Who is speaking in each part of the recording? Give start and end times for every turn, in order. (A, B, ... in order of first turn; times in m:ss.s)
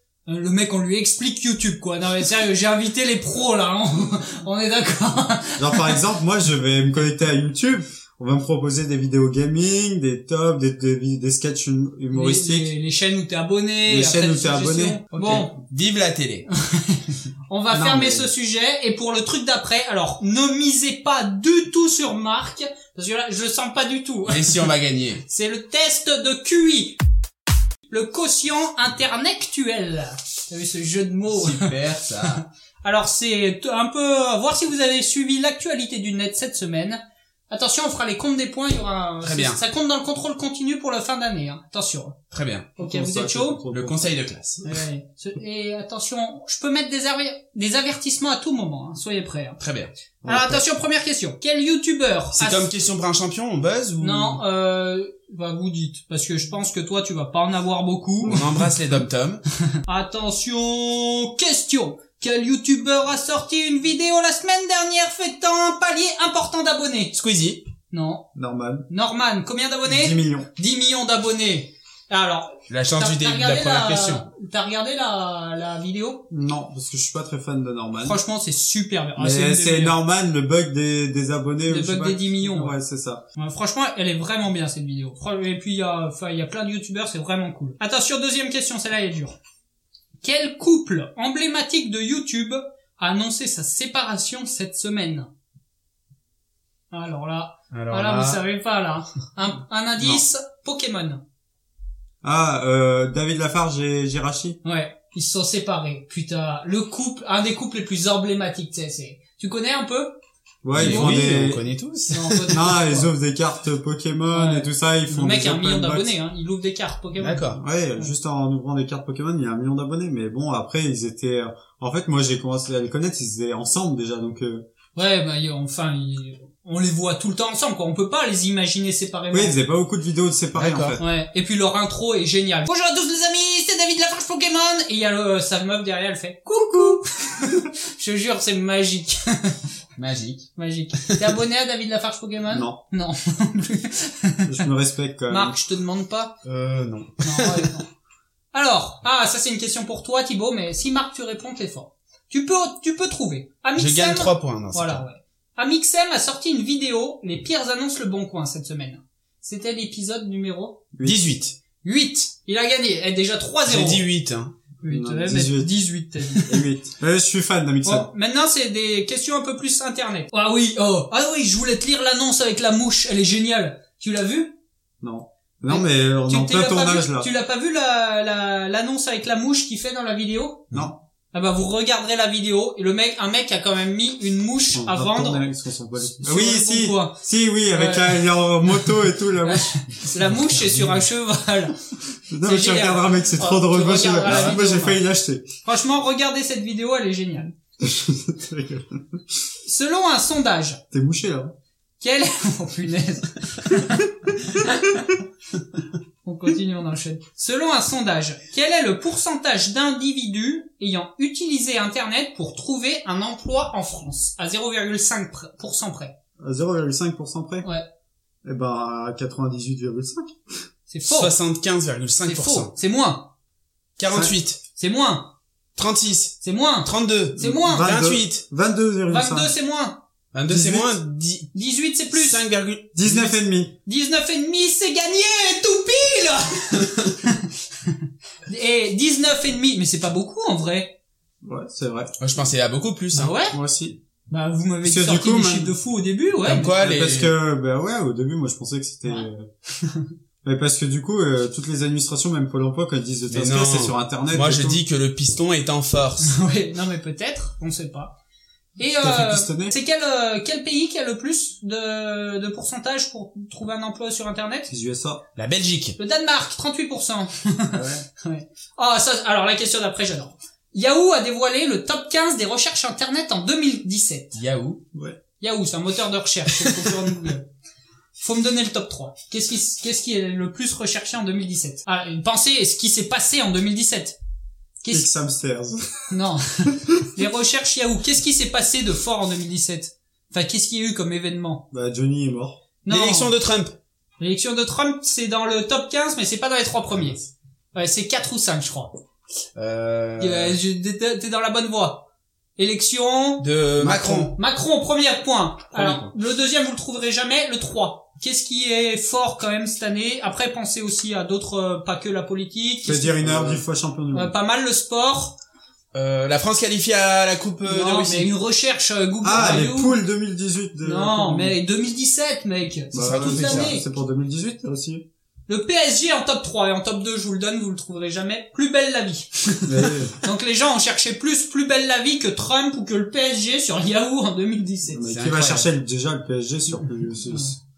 0:00.3-0:06.0 A
0:05.6-0:12.7 B
0:12.1-0:15.5 A
0:13.8-0:15.5 B
0:15.6-0:16.5 C
0:16.7-0:24.7 A
0:17.7-0:18.3 C
0:24.3-0:25.2 C
0:25.3-0:27.0 A
0:27.9-0:31.7 A
0:31.3-0:32.4 C
0:32.8-0:42.2 A
0:39.2-0:39.6 C
0:42.3-0:42.7 C
0:42.8-0:43.6 A
0:42.8-0:44.2 B
0:43.7-0:44.6 C
0:44.6-0:49.6 A
0:49.6-0:49.9 C
0:50.2-0:50.6 B
0:50.3-0:52.7 A
0:52.3-0:54.4 C
0:54.0-0:58.4 A
0:58.2-0:58.7 B
0:58.3-0:59.4 C
0:59.9-1:07.1 A
1:07.1-1:07.6 C
1:07.9-1:08.2 A
1:08.3-1:08.9 B
1:08.9-1:16.3 A
1:09.8-1:10.5 B
1:12.7-1:14.2 C
1:16.3-1:18.2 B
1:18.0-1:20.0 A
1:19.2-1:23.2 B
1:21.7-1:22.7 A
1:23.4-1:29.4 A
1:30.2-1:35.3 A
1:36.9-1:41.2 A
1:37.7-1:38.4 C
1:42.2-1:44.6 B
1:44.6-1:50.2 A
1:50.6-1:51.6 B
1:50.7-1:52.6 C
1:50.7-1:51.3 A
1:52.1-1:53.1 A
1:52.5-1:56.1 B
1:54.3-1:58.1 A
1:57.2-1:57.6 C
1:57.6-2:04.6 B
2:05.0-2:09.6 A
2:09.3-2:11.0 B
2:10.5-2:11.0 C
2:11.0-2:19.6 A
2:20.0-2:20.5 C
2:20.6-2:24.6 A
2:22.5-2:22.8 B
2:24.4-2:25.6 B
2:25.3-2:26.4 A
2:26.4-2:27.7 C
2:27.2-2:27.9 A
2:28.5-2:40.8 A
2:33.8-2:35.0 C
2:40.9-2:41.2 B
2:41.0-2:41.6 C
2:41.8-2:44.0 A
2:43.7-2:44.5 C
2:44.8-2:46.6 A
2:44.8-2:45.7 B
2:46.3-2:48.1 B
2:47.8-2:54.6 A
2:55.0-2:57.3 B
2:55.7-3:00.7 A
3:01.3-3:05.4 A
3:04.7-3:09.7 B
3:06.1-3:07.2 A
3:07.7-3:08.2 A
3:09.4-3:11.8 A
3:10.0-3:11.0 C
3:12.3-3:15.4 B
3:12.4-3:15.0 A
3:14.3-3:14.6 C
3:15.6-3:17.5 A
3:17.8-3:19.2 B
3:19.6-3:20.8 A
3:20.9-3:21.5 B
3:22.0-3:25.1 A
3:26.2-3:36.1 A
3:36.4-3:37.7 B
3:38.4-3:40.4 B
3:40.9-3:41.4 A
3:41.1-3:42.7 C
3:42.2-3:43.3 A
3:44.0-3:44.6 C
3:44.8-3:45.3 A
3:45.8-3:48.4 C
3:46.4-3:47.9 A
3:47.4-3:49.5 B
3:49.1-3:50.0 A
3:50.3-3:51.5 C
3:50.5-3:50.9 B
3:51.5-3:52.4 A
3:52.1-3:53.0 C
3:52.9-3:53.7 B
3:53.0-3:53.3 A
3:53.8-3:57.4 A
3:58.5-4:01.0 A
4:01.4-4:02.1 B
4:02.2-4:03.3 C
4:03.2-4:03.6 A
4:03.4-4:04.0 B
4:04.3-4:06.7 A
4:04.8-4:05.8 B
4:06.4-4:07.3 C
4:06.7-4:09.5 B
4:10.4-4:14.8 B
4:13.3-4:16.4 C
4:16.2-4:18.1 A
4:18.8-4:24.7 A
4:19.0-4:19.7 B
4:24.7-4:25.2 B
4:25.4-4:26.0 C
4:26.0-4:34.4 A
4:27.7-4:28.0 B
4:34.3-4:34.8 C
4:34.9-4:35.2 B
4:35.4-4:37.4 A
4:38.2-4:44.2 A
4:44.8-4:45.0 A
4:44.9-4:46.1 B
4:46.1-4:51.6 A
4:46.7-4:47.0 B
4:51.7-4:52.6 B
4:52.8-4:53.3 A
4:52.9-4:53.7 C
4:54.2-4:57.2 A
4:57.0-4:57.2 C
4:57.7-4:58.9 A
4:59.5-5:00.6 C
5:00.2-5:13.5 A
5:03.4-5:04.4 C
5:05.8-5:06.0 C
5:12.8-5:14.3 B
5:14.1-5:15.4 A
5:15.9-5:18.3 C
5:17.6-5:20.0 A
5:19.2-5:21.6 B
5:20.8-5:23.8 A
5:22.9-5:25.0 B
5:23.0-5:23.8 C
5:25.5-5:35.0 A
5:29.6-5:30.1 B
5:34.9-5:37.6 B
5:35.1-5:35.7 C